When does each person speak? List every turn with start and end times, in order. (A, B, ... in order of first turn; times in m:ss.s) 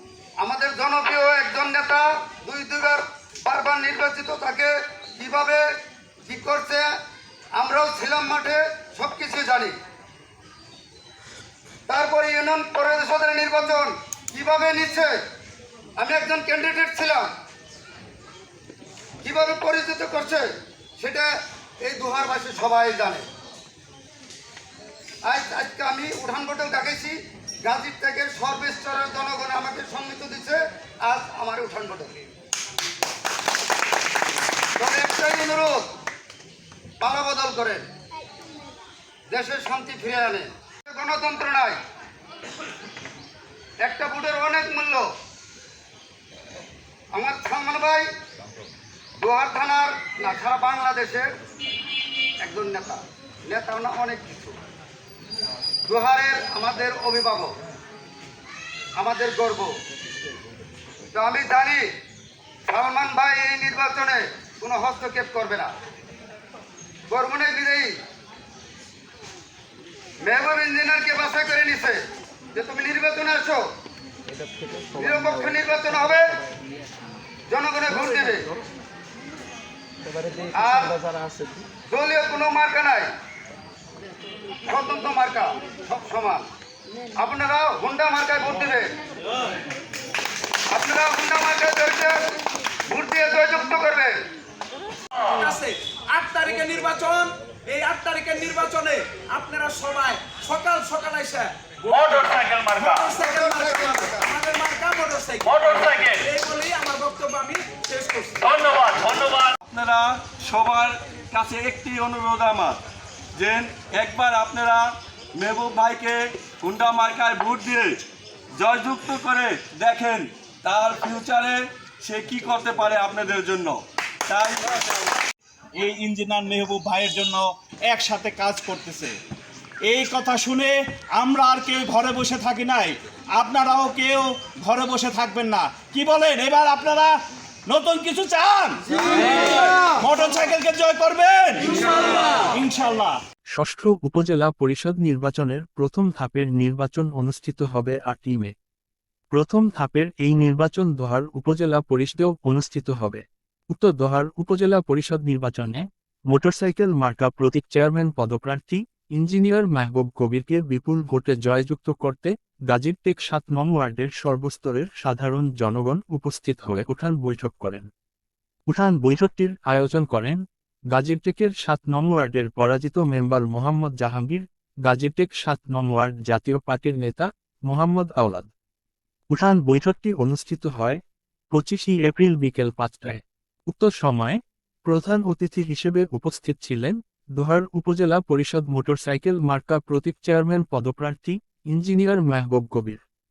0:00.4-0:05.6 A
0:06.3-0:06.9 A
0:07.6-0:09.7 A
0:11.9-0:15.2 A
0:16.0-0:17.2 A
0:19.2-0:20.4 A
0:21.0-0:21.3 A
0:21.8-0:23.2 A
0:25.2-0:32.2 A
0:34.8-0:35.9 A
0:37.0-0:37.8 A
0:39.3-0:41.8 A
0:43.8-0:45.1 A
0:47.1-0:48.0 A
0:49.2-0:51.2 A
0:52.4-0:54.6 A
0:55.9-0:57.5 A
0:59.0-0:59.8 A
1:01.1-1:01.8 A
1:02.7-1:05.7 A
1:07.1-1:08.0 A
1:10.2-1:12.0 A
1:12.5-1:13.6 A
1:15.0-1:16.2 A
1:17.5-1:18.5 A
1:20.5-1:20.9 A
1:21.9-1:23.1 A
1:24.7-1:26.5 A
1:27.2-1:28.9 A
1:30.7-1:32.2 A
1:32.9-1:34.2 A
1:35.2-1:48.5 B
1:41.9-1:43.1 C
1:42.8-1:44.3 A
1:45.4-1:46.3 C
1:48.4-1:49.5 C
1:49.6-1:52.8 D
1:53.4-1:54.8 D
1:55.4-1:58.0 D
1:58.6-2:04.7 D
2:05.8-2:09.2 E
2:09.8-2:17.1 E
2:17.7-2:23.2 E
2:23.5-2:28.5 F
2:29.3-2:47.9 F
2:48.7-2:50.4 F
2:50.9-2:58.5 F
2:59.3-3:01.0 F
3:01.5-3:13.0 F